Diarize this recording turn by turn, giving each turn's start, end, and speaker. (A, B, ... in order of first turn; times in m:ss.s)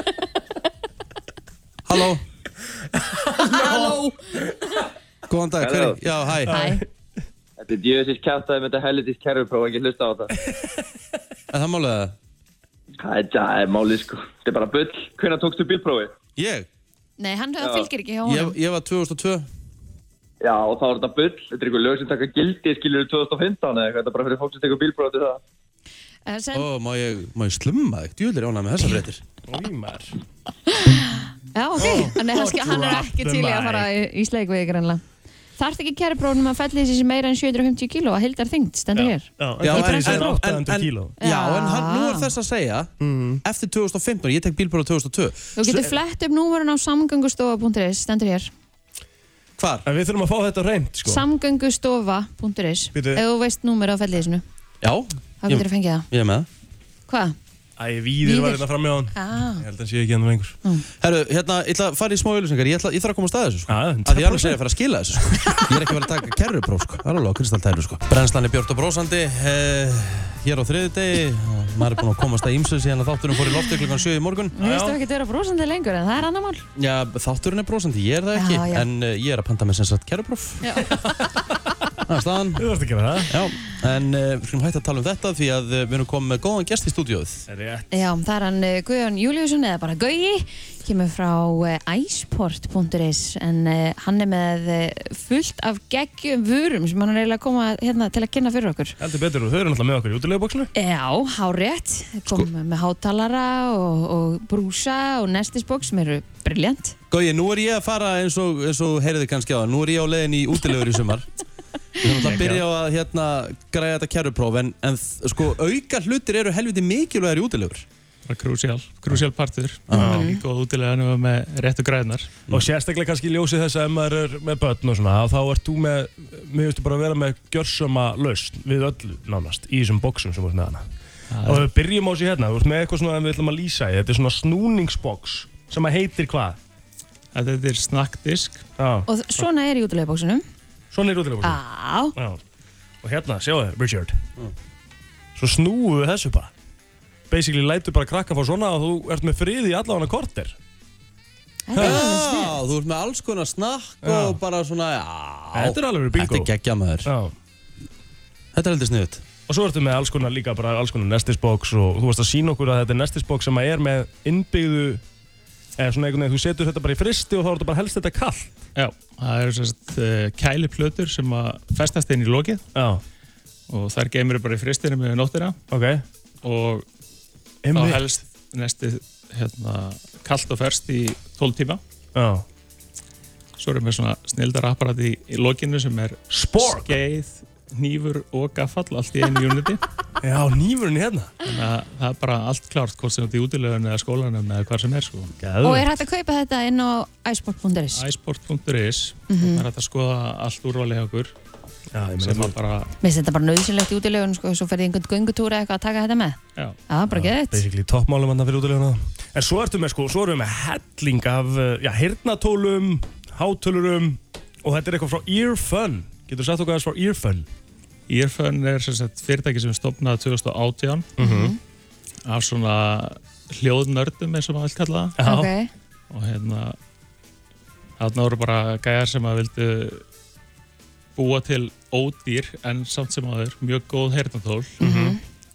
0:01.8-0:02.2 A
0:03.1-0:04.0 B
0:03.5-0:04.0 C
0:05.3-0:06.5 A
0:05.6-0:06.0 D
0:06.5-0:06.8 B
0:06.5-0:06.8 C
0:07.6-0:10.3 D
0:11.5-0:12.1 A
0:13.0-0:16.1 D
0:16.4-0:16.7 A
0:17.2-0:18.5 C
0:17.6-0:17.9 D
0:18.2-0:19.5 A
0:20.4-0:25.4 D
0:26.3-0:26.7 C
0:26.5-0:29.2 A
0:29.5-0:30.1 B
0:30.7-0:35.0 C
0:31.8-0:33.9 B
0:35.6-0:40.3 C
0:38.9-0:41.1 B
0:39.6-0:42.9 A
0:41.2-0:42.3 C
0:43.0-0:43.4 B
0:43.4-0:45.9 A
0:45.6-0:48.5 C
0:49.6-0:49.8 A
0:49.8-0:51.2 B
0:51.0-0:54.4 C
0:52.9-0:53.2 B
0:54.8-0:56.5 A
0:55.4-0:56.1 C
0:57.1-0:57.4 C
0:57.8-1:00.6 B
0:58.2-0:59.6 C
1:01.0-1:14.5 A
1:03.7-1:04.6 B
1:05.3-1:05.6 B
1:14.5-1:16.6 C
1:14.6-1:15.0 B
1:16.8-1:20.6 A
1:18.3-1:18.9 C
1:20.6-1:20.9 C
1:20.8-1:21.5 B
1:22.1-1:22.7 A
1:22.6-1:23.3 B
1:23.2-1:27.4 A
1:27.5-1:27.9 B
1:27.9-1:39.0 C
1:39.0-1:40.7 B
1:40.7-1:47.0 C
1:47.1-1:51.3 A
1:52.0-1:57.8 A
1:52.4-1:52.6 E
1:58.2-2:02.4 E
1:59.9-2:00.2 A
1:59.9-2:00.4 C
2:00.0-2:00.2 B
2:02.5-2:10.8 B
2:11.3-2:11.7 E
2:11.4-2:16.6 B
2:17.3-2:18.6 E
2:18.8-2:19.1 B
2:19.1-2:20.4 C
2:20.9-2:21.6 B
2:21.4-2:22.1 C
2:22.1-2:22.4 B
2:23.0-2:24.2 B
2:25.4-2:26.5 B
2:27.3-2:30.6 B
2:31.7-2:32.5 C
2:31.7-2:32.0 B
2:31.8-2:37.1 A
2:34.0-2:34.4 B
2:35.5-2:36.5 B
2:37.0-2:37.3 B
2:38.5-2:39.2 A
2:39.5-2:45.0 B
2:45.8-2:48.5 B
2:48.8-2:52.6 E
2:52.7-2:53.0 B
2:53.7-2:55.6 E
2:55.7-2:56.0 B
2:56.4-2:56.8 E
2:57.6-2:58.1 B
2:57.7-3:01.8 E
3:02.1-3:02.4 B
3:03.6-3:09.8 E
3:06.3-3:06.9 B
3:10.2-3:11.3 B
3:11.4-3:15.3 E
3:15.4-3:15.9 B
3:15.6-3:18.0 C
3:17.9-3:21.3 E
3:19.3-3:19.6 C
3:21.9-3:22.6 B
3:22.2-3:22.9 E
3:23.0-3:27.6 C
3:27.1-3:37.5 B
3:38.1-3:41.1 E
3:41.2-3:41.5 B
3:41.2-3:41.6 C
3:42.2-3:45.2 E
3:45.2-3:45.5 B
3:45.2-3:45.7 C
3:46.1-3:46.8 E
3:48.0-3:50.0 E
3:51.2-3:54.8 E
3:54.8-3:55.2 C
3:54.8-3:55.2 B